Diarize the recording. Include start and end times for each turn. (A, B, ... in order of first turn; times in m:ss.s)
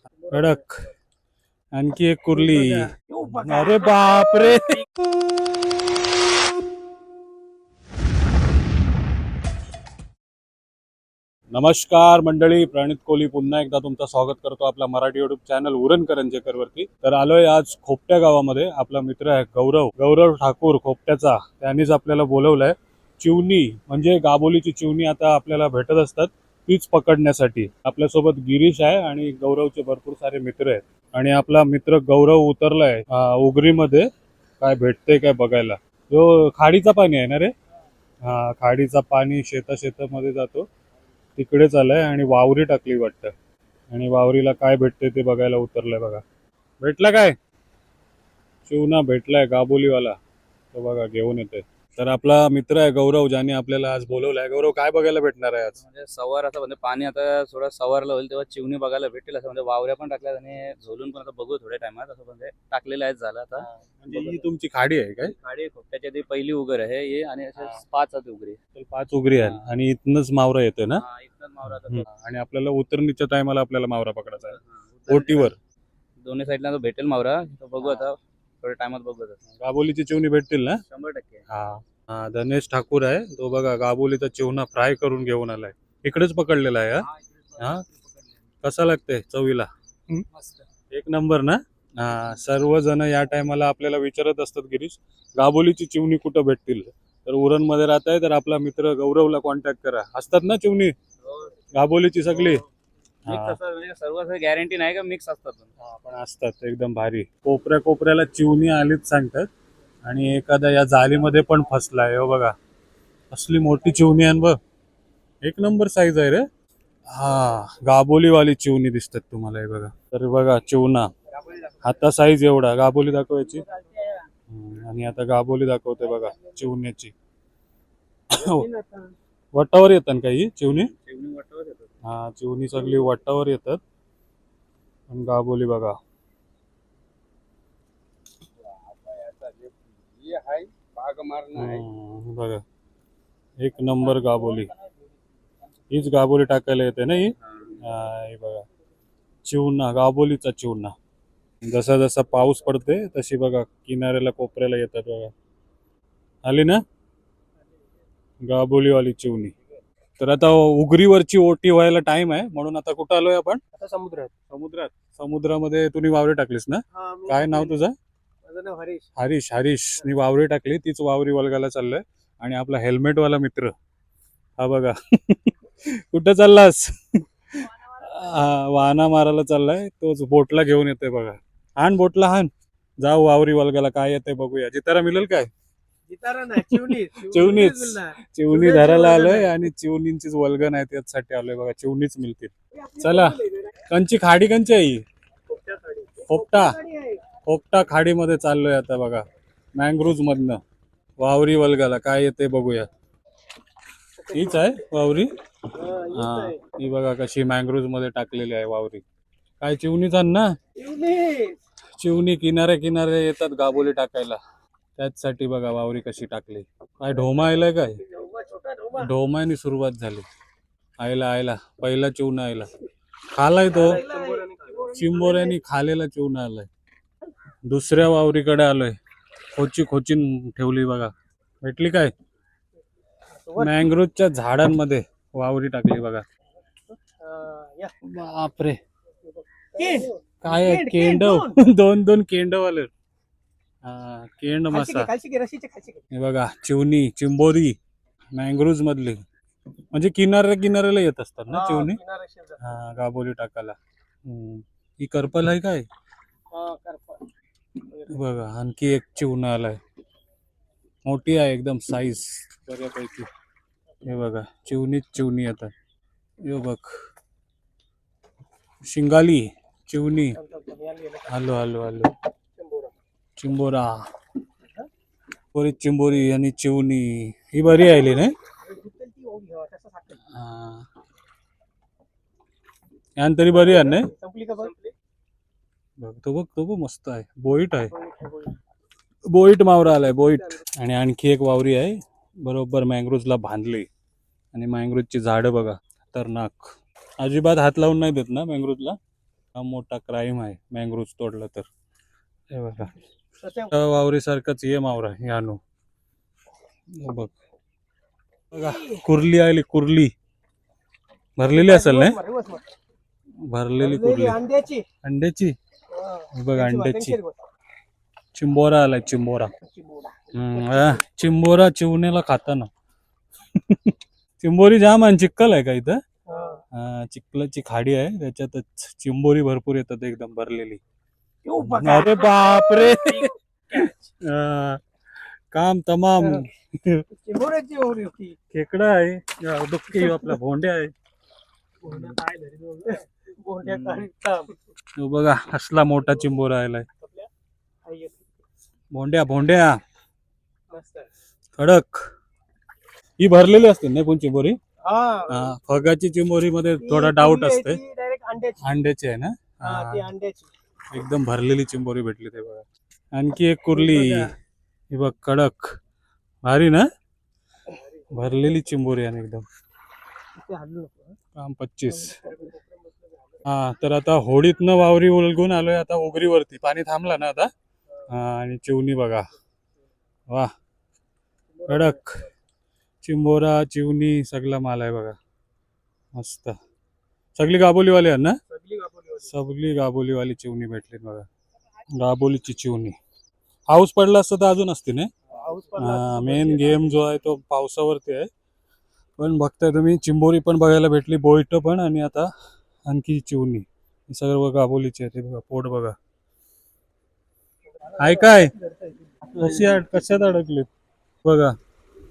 0:00.3-0:00.8 A
0:01.8-0:04.8 A
0:03.1-0:04.0 B
0:11.5-0:34.1 A
0:34.6-0:37.5 A
0:38.2-0:40.7 A
0:41.4-0:43.3 A
0:43.9-0:46.2 A
0:46.8-0:47.3 A
0:48.6-0:50.2 A
0:50.7-0:55.8 A
0:55.8-1:04.4 C
1:03.6-1:05.3 A
1:05.3-1:08.6 C
1:08.8-1:11.0 A
1:09.4-1:09.6 C
1:10.9-1:12.1 C
1:11.6-1:15.6 A
1:14.5-1:15.6 C
1:16.2-1:19.4 C
1:19.6-1:20.8 A
1:20.8-1:21.4 C
1:21.5-1:27.0 A
1:27.4-1:28.2 C
1:27.6-1:27.8 A
1:28.6-1:30.2 A
1:30.3-1:30.6 C
1:30.9-1:40.9 A
1:41.2-1:41.6 C
1:41.7-1:42.6 A
1:42.3-1:42.6 C
1:43.2-1:43.6 A
1:43.2-1:45.7 C
1:45.8-1:49.5 A
1:50.0-1:52.5 A
1:53.3-1:54.6 A
1:55.4-1:56.4 A
1:57.1-2:01.1 A
2:01.8-2:03.6 A
2:03.8-2:04.2 C
2:04.5-2:07.1 A
2:08.3-2:08.7 A
2:08.5-2:09.1 C
2:09.5-2:10.9 A
2:10.9-2:11.9 C
2:12.0-2:13.8 A
2:15.1-2:16.0 A
2:18.7-2:21.8 C
2:21.5-2:22.6 A
2:23.6-2:24.7 A
2:25.9-2:28.6 A
2:29.4-2:30.9 A
2:31.6-2:35.3 A
2:36.4-2:36.8 A
2:38.4-2:39.5 A
2:40.2-2:43.6 A
2:43.8-2:44.3 B
2:44.5-2:47.9 A
2:46.9-2:47.8 B
2:48.4-2:49.0 B
2:49.2-2:53.7 A
2:54.6-3:02.5 A
3:03.0-3:05.5 A
3:06.1-3:09.5 B
3:06.5-3:15.0 A
3:12.7-3:13.6 B
3:15.5-3:17.2 B
3:16.2-3:16.8 A
3:17.4-3:19.2 A
3:19.8-3:20.6 A
3:21.2-3:22.9 A
3:24.2-3:24.9 B
3:24.3-3:25.3 A
3:25.8-3:26.6 B
3:26.1-3:29.0 A
3:29.6-3:30.5 A
3:30.8-3:31.6 B
3:32.0-3:34.4 A
3:35.0-3:38.0 A
3:38.1-3:39.1 B
3:39.0-3:40.2 A
3:41.0-3:42.7 A
3:43.3-3:44.0 A
3:43.7-3:45.5 B
3:44.9-3:46.7 A
3:47.6-3:49.0 A
3:49.5-3:51.1 A
3:51.6-3:52.1 A
3:53.3-3:53.8 B
3:53.6-3:56.2 A
3:56.9-3:57.9 B
3:58.0-3:58.8 A
3:59.3-4:01.6 B
4:00.4-4:02.9 A
4:03.8-4:05.1 A
4:04.7-4:06.0 B
4:06.1-4:07.8 A
4:08.4-4:09.2 A
4:09.9-4:12.0 A
4:11.5-4:12.6 B
4:12.6-4:15.8 A
4:16.5-4:17.3 B
4:17.9-4:18.2 B
4:18.1-4:19.8 A
4:21.0-4:23.3 A
4:24.0-4:25.7 A
4:26.4-4:26.8 A
4:28.8-4:30.4 A
4:30.4-4:31.3 B
4:31.3-4:32.1 A
4:32.6-4:32.9 B
4:33.4-4:34.0 A
4:34.6-4:34.9 B
4:35.5-4:38.3 A
4:37.8-4:40.2 B
4:40.3-4:40.9 A
4:43.2-4:44.1 A
4:43.5-4:44.9 B
4:46.0-4:47.9 A
4:47.9-4:48.6 B
4:49.3-4:53.9 A
4:54.5-4:59.0 A
4:59.5-5:01.7 A
5:02.5-5:02.9 A
5:03.4-5:03.8 B
5:03.7-5:05.6 A
5:07.0-5:07.3 A
5:08.5-5:10.1 A
5:08.5-5:09.0 B
5:11.4-5:12.2 A
5:11.5-5:12.7 B
5:13.4-5:14.4 A
5:13.8-5:14.8 B
5:15.0-5:15.6 A
5:15.9-5:17.4 B
5:16.3-5:17.2 A
5:18.3-5:19.5 A
5:19.6-5:21.0 B
5:20.3-5:22.7 A
5:23.5-5:26.0 A
5:26.2-5:26.6 B
5:26.7-5:30.8 A
5:31.4-5:33.9 B
5:31.6-5:34.8 A
5:35.5-5:37.1 A
5:37.2-5:38.4 B
5:38.5-5:40.9 A
5:40.0-5:40.3 B
5:41.8-5:44.6 B
5:43.6-5:44.0 A
5:45.0-5:46.9 A
5:47.0-5:47.3 B
5:47.8-5:48.3 B
5:48.9-5:49.8 A
5:50.7-5:51.1 B
5:51.6-5:52.1 A
5:53.2-5:54.6 A
5:54.8-5:55.5 B
5:55.3-5:57.8 A
5:56.8-5:58.6 B
5:58.6-6:00.1 A
5:59.6-6:00.5 B
6:00.9-6:04.3 A
6:04.9-6:05.8 A
6:06.4-6:06.8 A
6:08.1-6:09.4 A
6:10.3-6:11.2 B
6:11.4-6:12.2 A
6:11.9-6:12.6 B
6:13.4-6:17.5 A
6:18.0-6:19.3 A
6:21.6-6:22.2 A
6:23.0-6:25.2 A
6:26.2-6:26.6 A
6:27.4-6:28.4 A
6:28.5-6:29.1 B
6:29.2-6:31.3 A
6:32.0-6:33.0 A
6:33.7-6:35.1 A
6:35.4-6:36.9 B
6:35.8-6:38.3 A
6:39.2-6:42.3 A
6:42.9-6:46.0 A
6:47.8-6:49.0 B
6:48.0-6:48.5 A
6:49.3-6:50.7 A
6:51.2-6:51.6 A